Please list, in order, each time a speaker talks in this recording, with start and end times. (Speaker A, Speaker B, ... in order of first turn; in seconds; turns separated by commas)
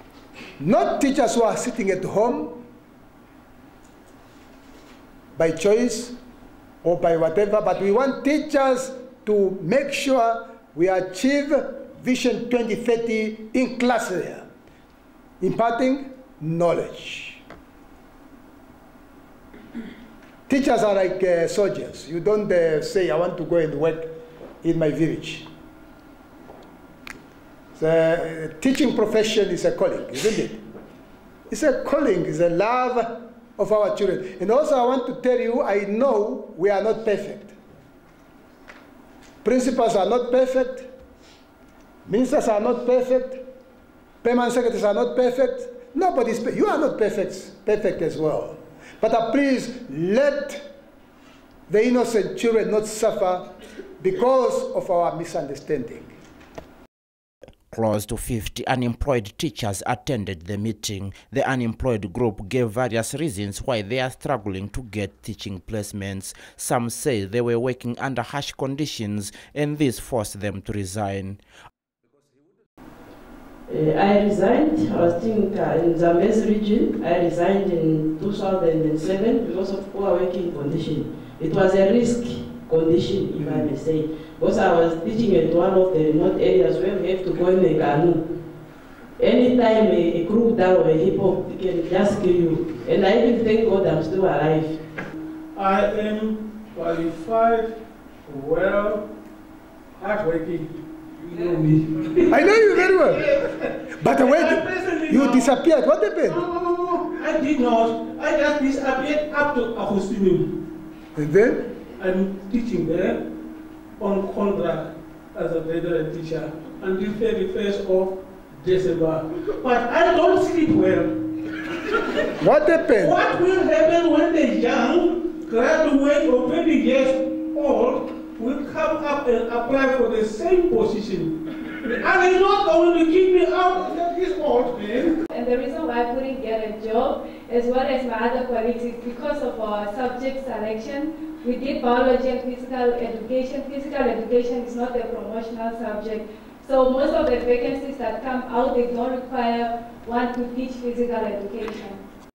Speaker A: 0.6-2.6, Speaker A: 5.3-6.2, Speaker A: 6.8-14.5, Speaker A: 15.4-17.4, Speaker A: 20.5-25.5, Speaker A: 27.7-30.6, Speaker A: 31.5-37.5, Speaker A: 39.4-40.9, Speaker A: 42.0-43.4, Speaker A: 44.2-50.6, Speaker A: 51.7-56.1, Speaker B: 57.7-71.4, Speaker C: 73.7-88.2, Speaker C: 89.2-94.8, Speaker D: 95.5-99.0, Speaker D: 100.0-105.5, Speaker A: 102.3-103.2, Speaker A: 104.0-106.4, Speaker D: 106.3-110.5, Speaker A: 111.2-111.7, Speaker D: 112.0-113.2, Speaker D: 114.0-121.2, Speaker A: 122.4-123.2, Speaker D: 123.0-135.2, Speaker E: 135.3-152.0